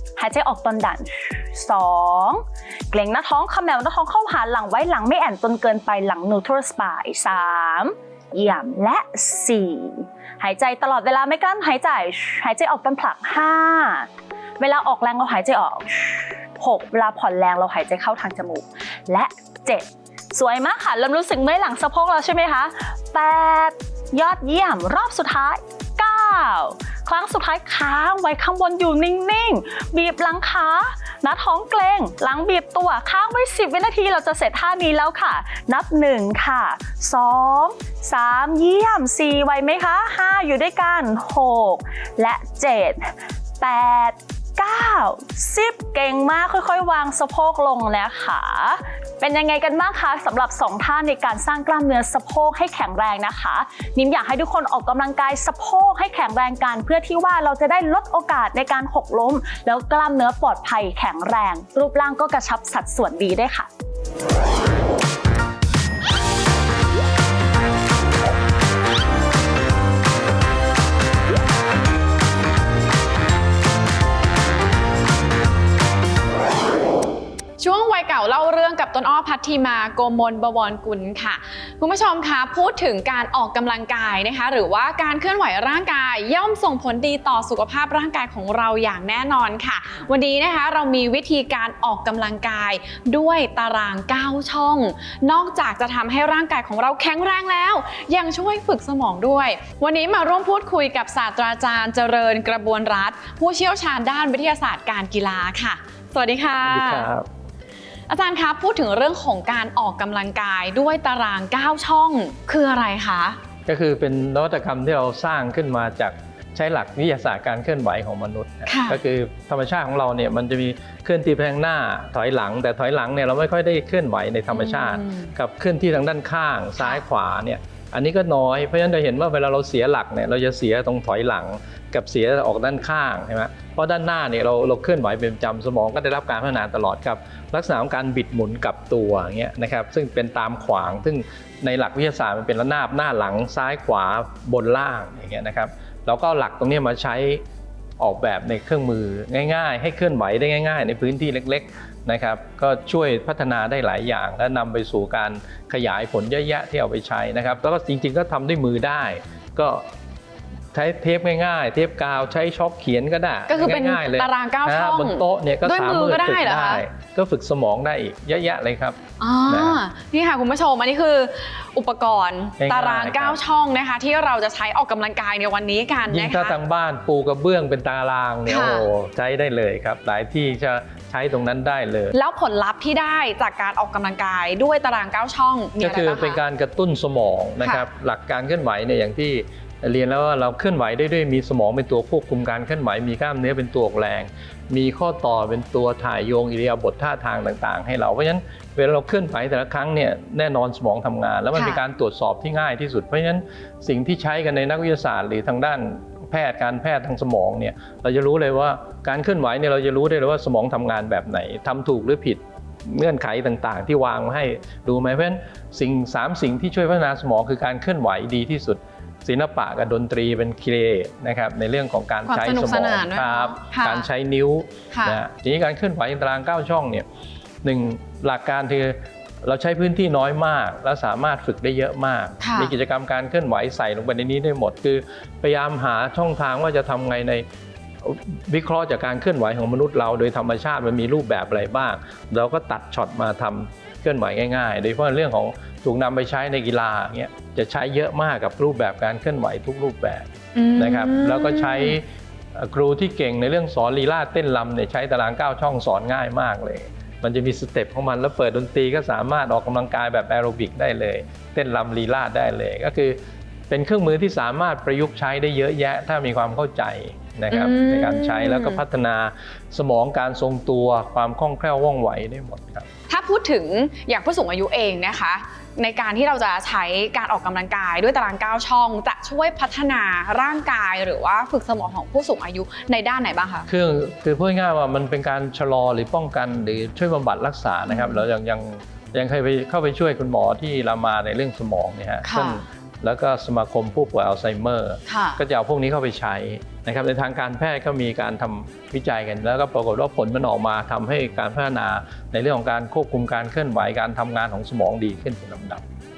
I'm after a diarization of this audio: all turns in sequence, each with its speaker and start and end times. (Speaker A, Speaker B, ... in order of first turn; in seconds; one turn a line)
Speaker A: 0.2-63.7
Speaker B: 77.6-107.1
Speaker C: 106.6-107.3
Speaker B: 108.1-113.4
Speaker C: 113.7-147.4
Speaker B: 118.7-119.0
Speaker B: 124.5-125.3
Speaker C: 148.0-159.8
Speaker C: 160.7-169.8
Speaker B: 163.5-166.8
Speaker B: 169.2-176.6
Speaker C: 172.6-173.4
Speaker C: 176.1-182.1
Speaker B: 178.4-178.9
Speaker B: 182.1-186.4
Speaker C: 185.8-227.1
Speaker B: 187.6-187.9
Speaker B: 201.5-201.8
Speaker B: 222.3-224.1
Speaker B: 224.9-225.2
Speaker C: 227.6-237.4
Speaker B: 232.4-232.7
Speaker C: 238.0-263.2
Speaker B: 250.5-251.9
Speaker C: 263.7-272.9
Speaker B: 267.5-268.8
Speaker B: 273.1-283.7
Speaker C: 283.7-305.8
Speaker B: 287.9-288.2
Speaker B: 292.2-292.6
Speaker B: 295.1-295.4